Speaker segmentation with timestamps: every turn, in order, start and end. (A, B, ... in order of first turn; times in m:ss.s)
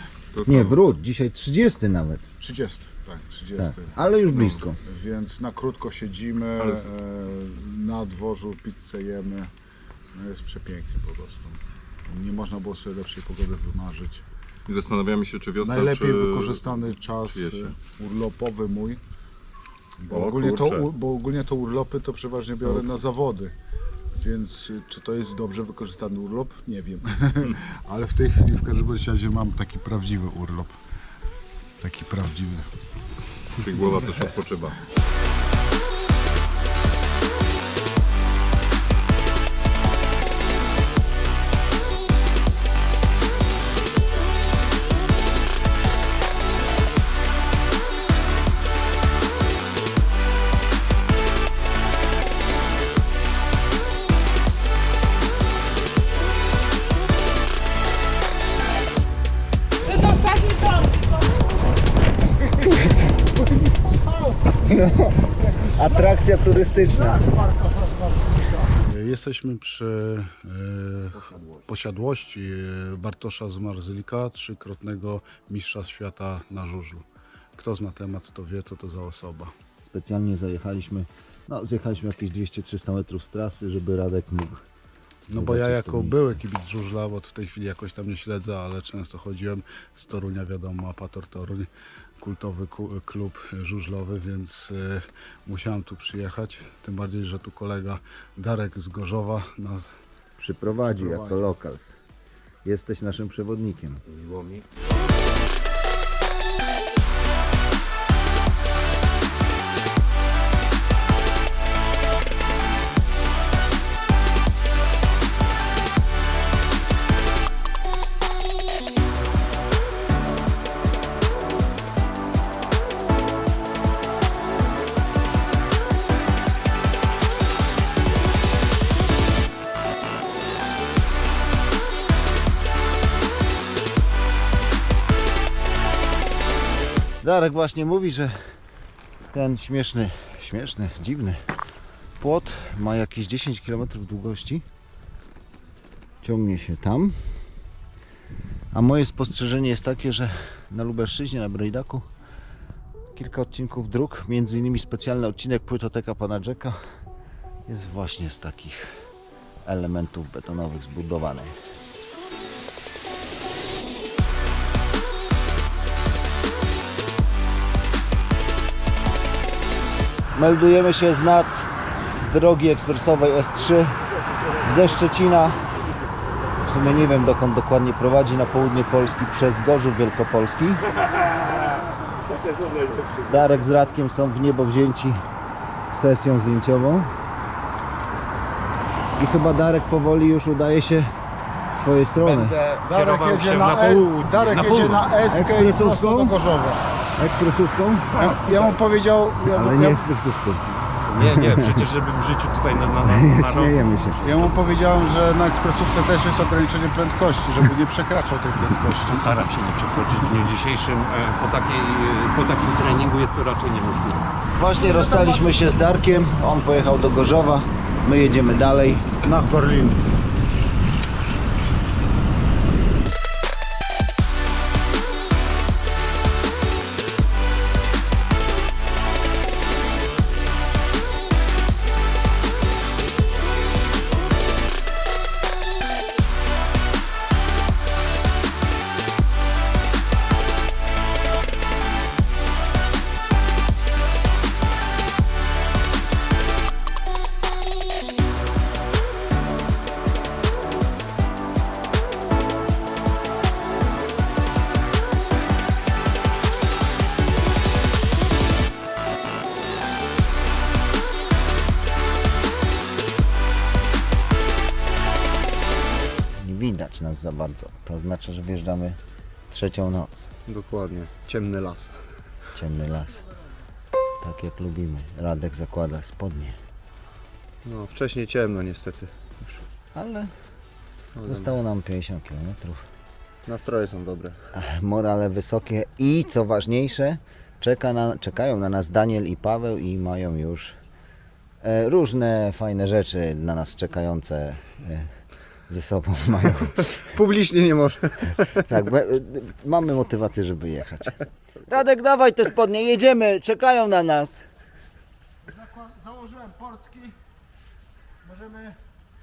0:00.3-0:00.8 A
0:00.4-0:02.2 B
0:02.4-0:04.0 C
0:03.6-0:04.8 B
0:04.3-0:04.6 A
0:04.8-0:09.5 C
0:06.6-0:06.9 A
0:10.1-0:14.2 C
0:14.7-0:17.8 A
0:15.6-0:19.0 C
0:20.0-0:23.5 C
0:20.1-0:20.9 A
0:24.1-0:30.8 C
0:31.8-0:32.7 C
0:33.6-0:34.8 A
0:33.8-0:34.1 C
1:03.8-1:04.3 C
1:04.6-1:07.2 B
1:07.4-1:17.0 C
1:17.6-1:19.5 C
1:19.8-1:24.6 B
1:25.3-1:39.9 C
1:25.3-1:26.4 B
1:40.4-1:42.0 B
1:40.9-1:41.5 C
1:42.6-1:44.0 B
1:44.1-1:44.6 D
2:17.2-2:18.4 B
2:19.3-2:21.4 B
2:22.2-2:24.6 B
2:26.2-2:27.2 B
2:28.7-2:32.0 B
2:33.1-2:36.8 B
2:37.7-2:38.9 B
2:39.6-2:41.5 B
2:50.3-2:54.0 B
2:54.6-2:55.6 B
2:56.6-3:00.8 B
3:03.2-3:05.2 B
3:05.9-3:07.1 B
3:09.2-3:11.1 B
3:11.7-3:12.5 B
3:12.2-3:15.1 D
3:12.8-3:16.8 C
3:15.3-3:16.4 B
3:17.2-3:18.1 B
3:18.1-3:18.8 D
3:18.2-3:20.0 C
3:19.5-3:21.5 B
3:21.0-3:24.6 D
3:23.0-3:24.2 B
3:24.2-3:29.4 C
3:29.0-3:34.3 D
3:34.6-3:39.1 B
3:34.8-3:35.5 C
3:39.2-3:40.0 C
4:26.4-4:29.0 B
4:29.5-4:30.3 B
4:30.4-4:31.9 E
4:32.5-4:33.2 B
4:34.2-4:36.6 B
4:37.6-4:39.6 E
4:39.9-4:40.3 B
4:41.2-4:41.4 E
4:41.2-4:42.8 B
4:43.5-4:44.3 E
4:44.5-4:50.8 B
4:51.6-4:55.1 B
4:55.7-4:57.0 B
4:57.3-4:58.2 E
4:58.6-5:04.4 B
5:05.8-5:06.9 C